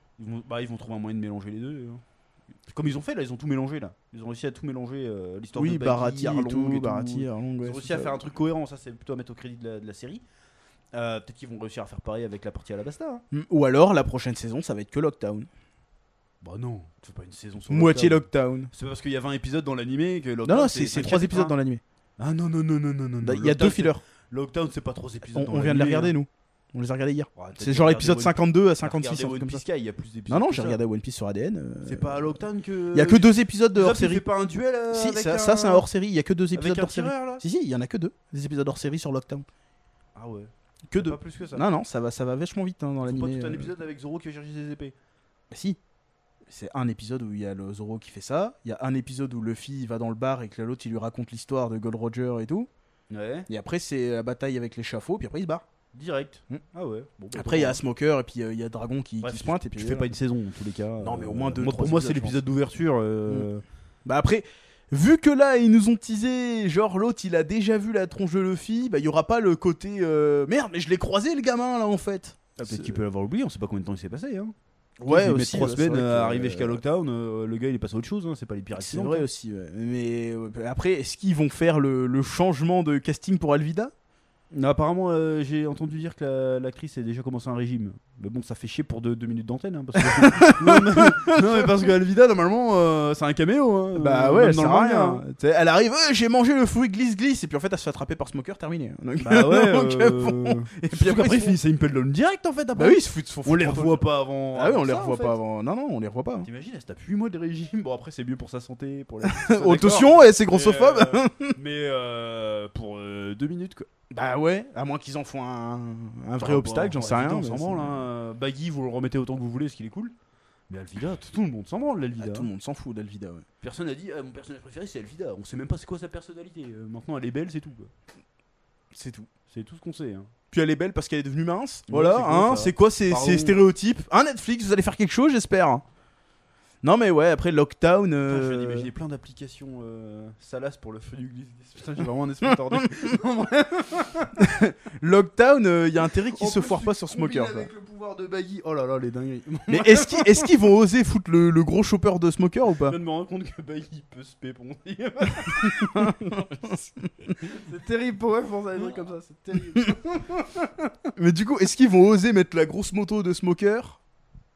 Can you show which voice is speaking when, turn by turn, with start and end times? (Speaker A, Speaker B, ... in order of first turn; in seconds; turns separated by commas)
Speaker A: 0.2-2.0, Speaker A: 2.7-10.2, Speaker B: 5.5-8.2, Speaker A: 10.9-13.2, Speaker B: 13.3-15.5, Speaker A: 16.4-21.6, Speaker B: 17.7-18.7, Speaker B: 20.4-21.8, Speaker A: 22.2-26.2, Speaker B: 23.2-24.0, Speaker B: 25.3-29.6, Speaker A: 27.4-30.8, Speaker B: 30.3-32.4, Speaker A: 31.9-35.9, Speaker B: 32.9-34.2, Speaker B: 34.9-39.5, Speaker A: 36.5-37.4, Speaker A: 40.1-41.6, Speaker B: 40.9-43.7, Speaker A: 43.0-45.0, Speaker B: 45.5-45.8, Speaker B: 46.5-52.7, Speaker A: 53.1-53.5, Speaker B: 53.5-55.6, Speaker A: 55.9-57.8, Speaker B: 57.3-60.1, Speaker A: 59.2-63.6, Speaker B: 61.0-62.4, Speaker B: 64.0-73.0, Speaker A: 72.6-74.5, Speaker B: 75.0-76.8, Speaker A: 75.1-79.3, Speaker B: 78.8-83.9, Speaker A: 84.5-95.2, Speaker B: 90.0-91.9, Speaker B: 94.0-101.6, Speaker A: 99.2-105.4, Speaker B: 102.8-106.5, Speaker A: 106.4-113.9, Speaker B: 109.3-111.6, Speaker B: 114.1-118.1, Speaker A: 116.4-120.1, Speaker A: 120.7-122.5, Speaker B: 122.2-123.5, Speaker A: 123.6-127.9, Speaker B: 128.9-129.3, Speaker A: 129.5-130.3, Speaker B: 130.5-135.8, Speaker A: 131.9-133.6, Speaker B: 136.8-138.9, Speaker A: 138.2-144.4, Speaker B: 144.4-147.7, Speaker A: 146.1-150.5, Speaker B: 149.7-153.0, Speaker A: 152.8-156.4, Speaker B: 155.5-157.4, Speaker A: 157.3-160.7, Speaker B: 161.2-164.0